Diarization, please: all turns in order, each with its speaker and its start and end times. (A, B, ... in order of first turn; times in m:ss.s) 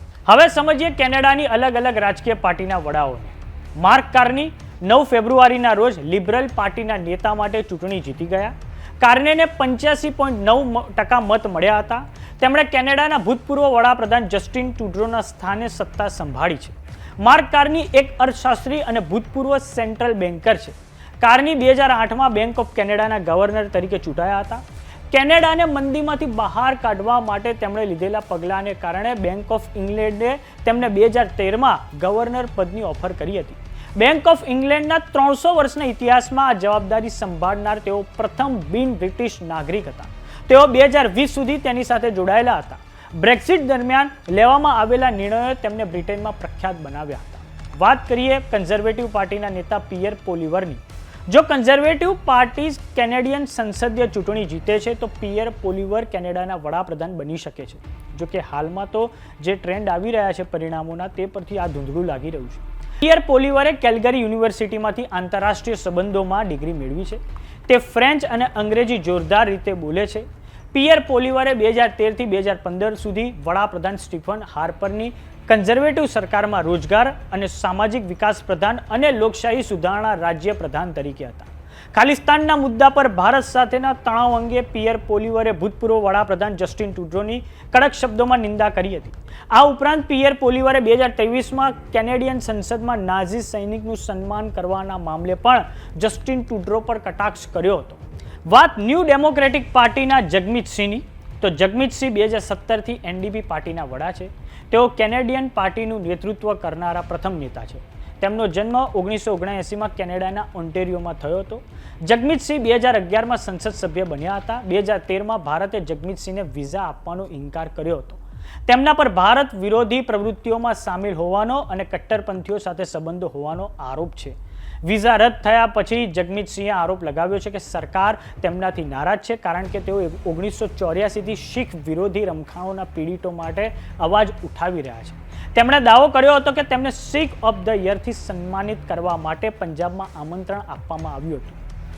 0:00.2-2:21.6 A